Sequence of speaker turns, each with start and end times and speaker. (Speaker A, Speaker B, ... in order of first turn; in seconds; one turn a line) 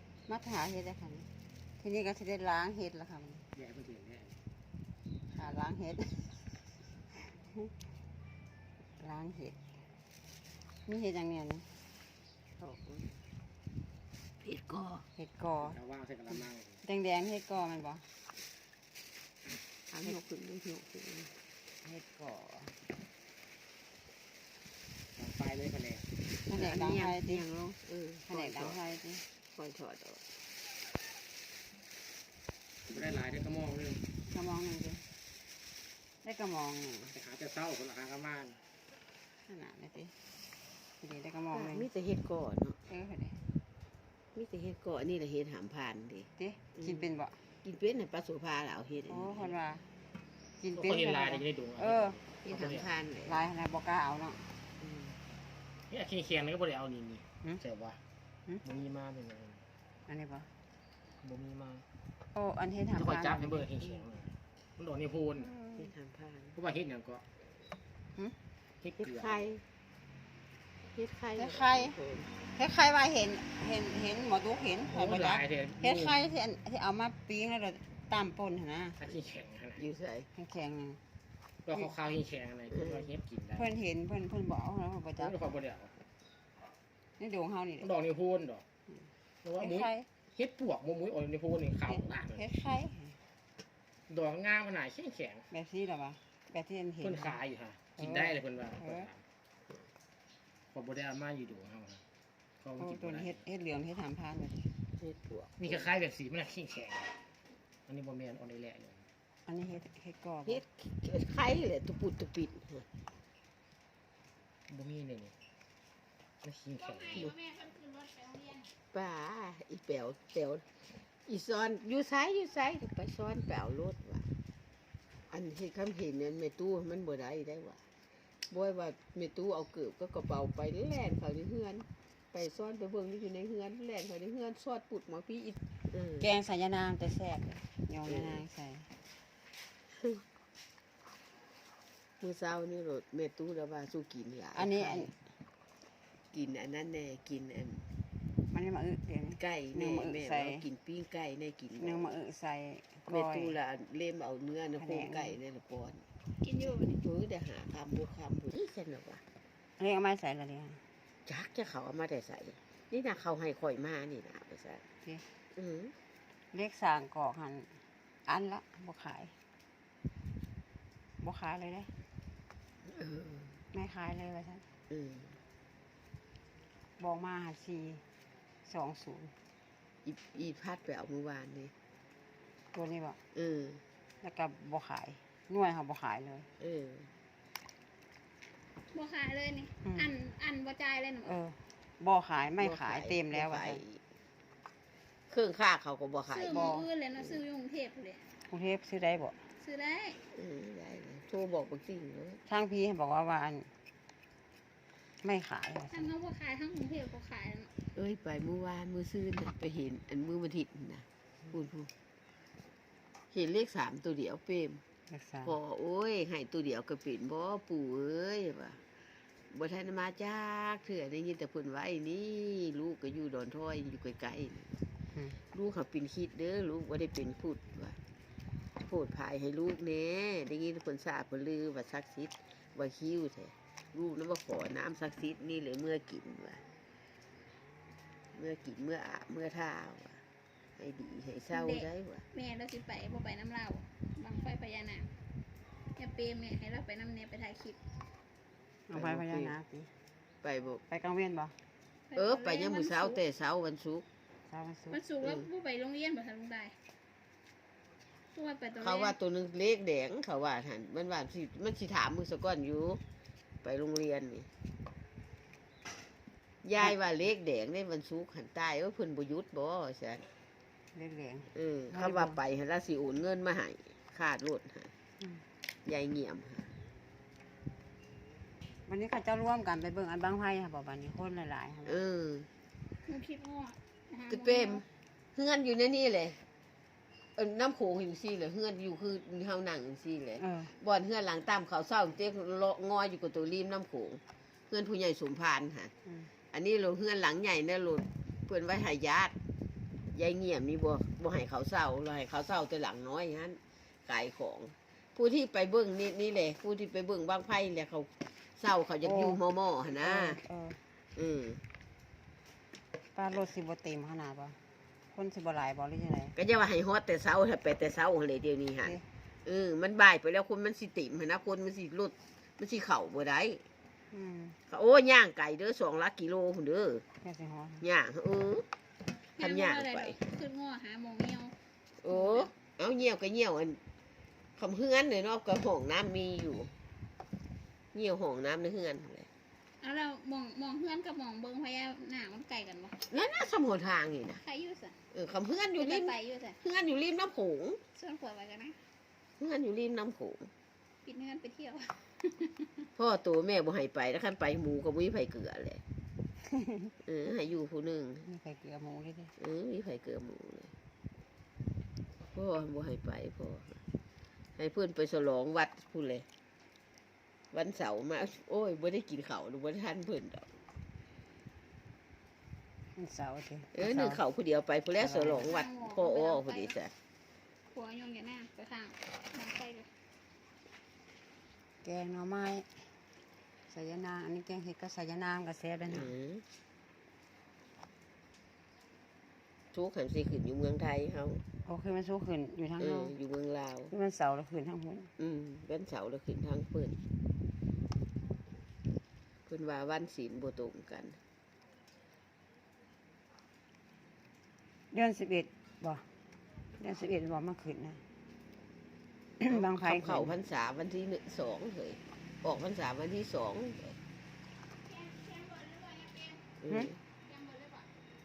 Speaker A: 0.3-1.3
Speaker A: 1.8-3.5
Speaker B: 3.5-4.4
Speaker A: 5.3-6.5
Speaker A: 7.2-7.7
Speaker A: 9.0-9.6
Speaker A: 10.9-11.7
Speaker C: 12.6-13.2
Speaker C: 14.4-15.1
Speaker A: 15.2-15.8
Speaker B: 15.6-16.8
Speaker A: 16.8-18.1
Speaker C: 19.9-21.3
Speaker A: 21.8-22.8
Speaker B: 25.2-26.1
Speaker A: 26.5-27.4
Speaker C: 26.5-28.8
Speaker A: 28.3-29.2
Speaker C: 29.5-30.2
Speaker B: 32.9-34.0
Speaker A: 34.3-35.0
Speaker A: 36.2-37.1
Speaker B: 37.1-38.6
Speaker A: 39.5-40.1
Speaker A: 41.0-41.9
Speaker C: 41.5-42.8
Speaker A: 42.9-43.4
Speaker C: 44.4-47.1
Speaker A: 46.4-47.4
Speaker C: 47.6-49.5
Speaker A: 49.1-49.8
Speaker A: 50.6-52.2
Speaker B: 50.8-52.9
Speaker C: 52.4-53.4
Speaker A: 53.3-54.5
Speaker C: 54.8-55.2
Speaker B: 55.9-58.0
Speaker B: 58.6-59.6
Speaker A: 60.1-60.5
Speaker B: 61.2-61.8
Speaker A: 62.4-64.0
Speaker B: 63.0-65.5
Speaker A: 65.4-65.9
Speaker C: 65.8-66.6
Speaker B: 66.6-67.2
Speaker B: 68.8-69.4
Speaker C: 69.0-69.6
Speaker C: 70.9-72.3
Speaker A: 71.4-72.0
Speaker A: 72.6-79.0
Speaker B: 74.9-76.2
Speaker B: 79.0-79.8
Speaker C: 79.8-80.3
Speaker A: 80.3-81.0
Speaker B: 81.7-83.7
Speaker C: 82.7-83.1
Speaker A: 83.6-85.3
Speaker B: 85.2-85.9
Speaker A: 87.2-87.9
Speaker B: 87.8-88.6
Speaker B: 89.4-92.5
Speaker A: 89.6-90.1
Speaker A: 91.9-93.2
Speaker B: 94.1-95.5
Speaker A: 95.5-97.4
Speaker B: 97.0-99.2
Speaker A: 98.0-99.1
Speaker B: 100.7-102.0
Speaker B: 102.6-103.4
Speaker A: 102.8-104.7
Speaker C: 105.0-105.9
Speaker B: 105.6-107.1
Speaker B: 107.9-109.0
Speaker A: 109.5-110.6
Speaker C: 110.5-112.9
Speaker B: 114.7-115.3
Speaker B: 116.4-117.3
Speaker D: 116.8-118.7
Speaker C: 118.9-120.7
Speaker C: 121.3-124.3
Speaker C: 125.3-127.8
Speaker C: 128.5-136.2
Speaker A: 136.2-138.9
Speaker C: 138.1-138.4
Speaker C: 139.9-140.2
Speaker C: 142.2-145.1
Speaker A: 144.6-145.1
Speaker C: 146.3-147.9
Speaker A: 148.5-150.7
Speaker C: 149.4-152.1
Speaker A: 151.8-153.6
Speaker C: 153.1-156.1
Speaker A: 154.8-155.4
Speaker D: 156.4-157.0
Speaker C: 157.0-159.2
Speaker A: 159.8-160.8
Speaker C: 161.3-164.8
Speaker C: 165.5-165.9
Speaker A: 166.5-167.7
Speaker A: 168.3-169.3
Speaker A: 171.2-171.9
Speaker C: 172.8-173.6
Speaker A: 173.7-174.6
Speaker C: 174.9-175.4
Speaker A: 177.0-178.0
Speaker A: 178.7-179.3
Speaker C: 180.1-181.7
Speaker A: 182.7-183.2
Speaker C: 183.3-183.8
Speaker A: 184.2-186.5
Speaker C: 186.6-187.1
Speaker D: 188.9-191.4
Speaker A: 189.8-190.1
Speaker A: 191.2-193.8
Speaker C: 192.6-194.0
Speaker C: 195.3-197.4
Speaker D: 196.3-198.2
Speaker A: 196.5-196.8
Speaker A: 198.5-199.4
Speaker D: 199.6-200.2
Speaker C: 200.3-202.4
Speaker A: 202.5-203.7
Speaker A: 205.2-206.1
Speaker D: 205.9-207.7
Speaker C: 207.9-211.9
Speaker C: 213.3-214.8
Speaker A: 215.1-215.6
Speaker C: 215.4-218.8
Speaker C: 219.5-224.8
Speaker C: 225.5-228.0
Speaker C: 228.8-236.6
Speaker C: 238.3-240.2
Speaker C: 240.8-242.2
Speaker D: 241.5-245.1
Speaker D: 246.0-247.8
Speaker A: 248.9-249.9
Speaker C: 248.9-249.6
Speaker C: 250.4-250.8
Speaker A: 250.9-251.6
Speaker D: 252.1-253.2
Speaker C: 252.2-254.1
Speaker A: 254.5-255.0
Speaker D: 254.9-256.8
Speaker C: 255.2-255.5
Speaker D: 258.3-259.1
Speaker C: 258.8-263.0
Speaker C: 263.6-264.5
Speaker C: 266.6-270.3
Speaker A: 270.9-272.4
Speaker C: 271.5-274.9
Speaker C: 275.9-276.7
Speaker A: 278.9-282.0
Speaker C: 281.9-282.5
Speaker D: 283.1-284.9
Speaker C: 284.3-286.4
Speaker C: 287.4-295.9
Speaker A: 290.4-290.7
Speaker C: 296.5-299.4
Speaker C: 300.1-310.4
Speaker A: 309.0-309.4
Speaker A: 310.0-310.8
Speaker C: 311.2-311.6
Speaker A: 313.1-314.6
Speaker A: 315.1-316.4
Speaker C: 316.4-323.6
Speaker A: 324.1-324.6
Speaker C: 324.7-327.0
Speaker A: 327.2-327.8
Speaker C: 327.8-328.7
Speaker C: 329.4-330.2
Speaker D: 329.4-331.5
Speaker C: 332.0-333.8
Speaker D: 332.1-332.5
Speaker C: 334.6-336.8
Speaker C: 337.9-339.3
Speaker D: 339.8-342.9
Speaker C: 343.1-344.4
Speaker D: 344.4-345.0
Speaker C: 345.1-347.8
Speaker D: 345.8-346.6
Speaker D: 347.9-348.8
Speaker C: 349.4-350.5
Speaker D: 351.1-352.9
Speaker C: 353.0-355.8
Speaker A: 356.5-356.9
Speaker C: 357.0-358.3
Speaker A: 358.2-359.3
Speaker C: 359.4-360.7
Speaker C: 362.3-363.8
Speaker C: 364.6-366.3
Speaker C: 367.5-370.5
Speaker A: 373.0-374.2
Speaker C: 373.7-376.9
Speaker A: 375.0-375.4
Speaker D: 375.3-376.7
Speaker D: 377.7-379.9
Speaker A: 381.8-382.7
Speaker A: 383.7-386.1
Speaker C: 385.9-386.4
Speaker C: 389.7-391.4
Speaker A: 391.7-393.1
Speaker C: 392.8-393.9
Speaker A: 393.9-395.1
Speaker C: 395.2-397.0
Speaker C: 399.5-401.2
Speaker A: 404.9-406.0
Speaker A: 406.8-408.0
Speaker A: 409.4-410.3
Speaker C: 409.5-414.0
Speaker D: 414.8-416.5
Speaker C: 416.6-417.0
Speaker D: 417.2-417.9